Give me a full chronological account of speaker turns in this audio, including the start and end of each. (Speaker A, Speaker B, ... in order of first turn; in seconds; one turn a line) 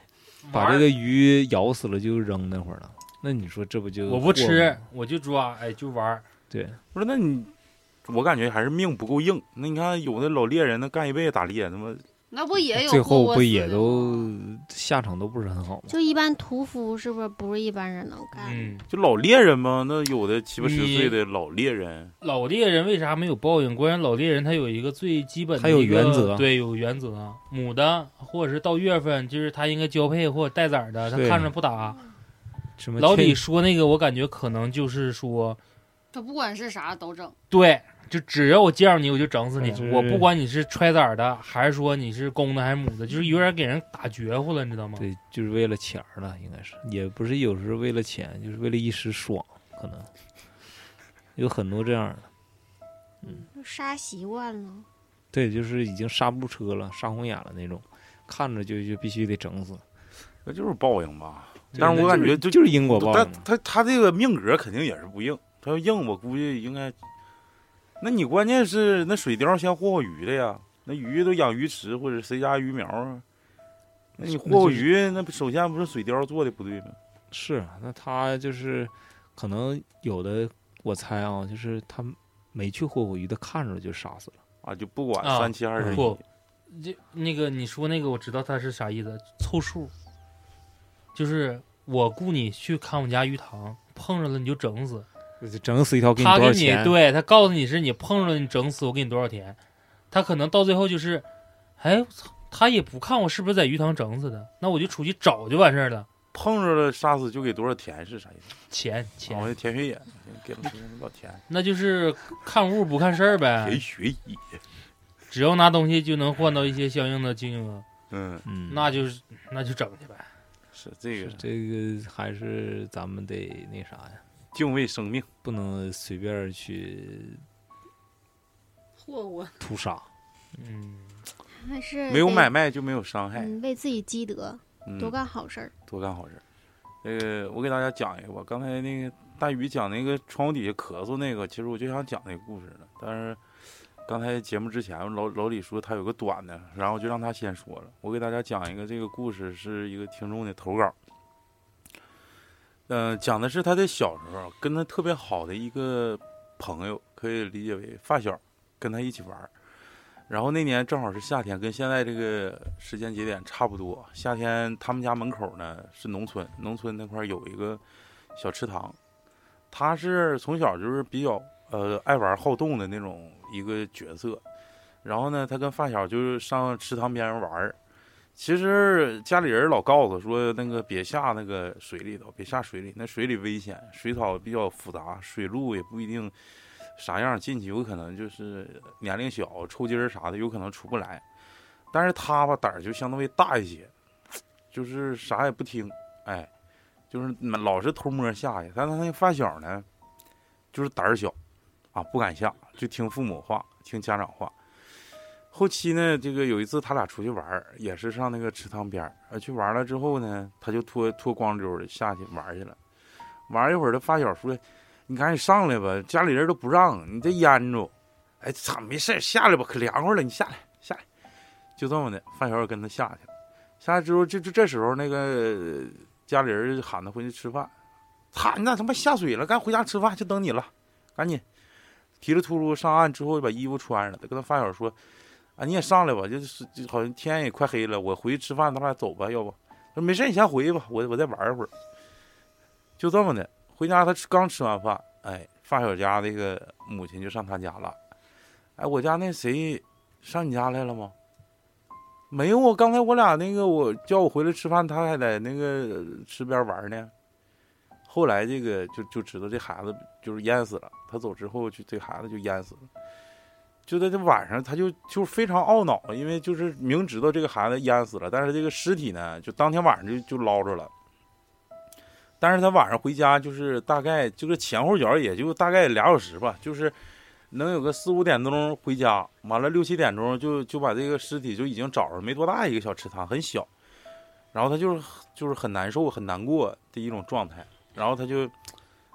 Speaker A: 0.4-0.9
Speaker B: 0.5-4.8
Speaker A: 4.1-6.2
Speaker B: 6.5-6.8
Speaker C: 6.9-7.5
Speaker C: 8.1-12.1
Speaker D: 12.3-14.3
Speaker B: 12.7-16.0
Speaker E: 15.9-18.7
Speaker A: 18.4-18.9
Speaker C: 18.9-22.1
Speaker A: 20.6-21.2
Speaker A: 22.2-32.0
Speaker B: 25.6-26.5
Speaker B: 31.1-31.5
Speaker B: 32.8-33.4
Speaker A: 33.0-35.6
Speaker D: 36.1-37.4
Speaker A: 37.5-45.1
Speaker B: 39.6-40.3
Speaker B: 45.0-50.1
Speaker B: 51.4-52.3
Speaker E: 53.5-54.9
Speaker B: 55.3-59.8
Speaker C: 60.5-67.0
Speaker A: 61.7-62.1
Speaker B: 61.8-63.5
Speaker C: 68.0-73.2
Speaker B: 74.2-74.9
Speaker C: 74.2-77.0
Speaker B: 77.3-84.4
Speaker C: 84.6-86.2
Speaker A: 85.2-89.9
Speaker B: 85.8-86.1
Speaker A: 91.2-95.1
Speaker B: 95.4-97.0
Speaker A: 96.2-99.6
Speaker A: 100.1-101.3
Speaker A: 101.8-106.1
Speaker C: 106.3-108.5
Speaker A: 108.7-109.5
Speaker C: 109.3-111.4
Speaker A: 111.5-113.8
Speaker C: 113.6-114.6
Speaker A: 115.3-117.8
Speaker C: 118.1-118.5
Speaker B: 118.5-118.9
Speaker A: 118.7-120.3
Speaker C: 120.7-121.4
Speaker B: 121.2-124.2
Speaker C: 124.5-125.3
Speaker B: 125.4-127.4
Speaker D: 129.0-129.6
Speaker B: 129.6-130.1
Speaker A: 130.6-131.2
Speaker E: 131.5-132.5
Speaker C: 132.1-133.6
Speaker E: 133.4-135.7
Speaker C: 134.8-135.2
Speaker C: 135.9-136.4
Speaker C: 137.0-143.4
Speaker C: 144.1-150.9
Speaker C: 152.9-159.5
Speaker C: 160.3-167.8
Speaker C: 168.4-169.0
Speaker C: 169.7-174.4
Speaker C: 175.0-177.8
Speaker C: 178.4-186.3
Speaker C: 187.0-191.2
Speaker C: 191.9-193.9
Speaker C: 194.7-196.5
Speaker C: 197.1-199.9
Speaker C: 200.7-201.4
Speaker C: 201.9-204.5
Speaker C: 205.5-212.8
Speaker C: 213.5-221.0
Speaker C: 221.8-223.3
Speaker C: 223.8-227.7
Speaker C: 228.3-231.4
Speaker C: 232.2-235.0
Speaker C: 235.6-241.7
Speaker C: 243.0-248.0
Speaker C: 248.8-251.1
Speaker C: 252.3-257.1
Speaker C: 258.1-262.9
Speaker C: 263.9-270.9
Speaker C: 272.4-276.9
Speaker C: 277.5-283.7
Speaker C: 284.5-288.5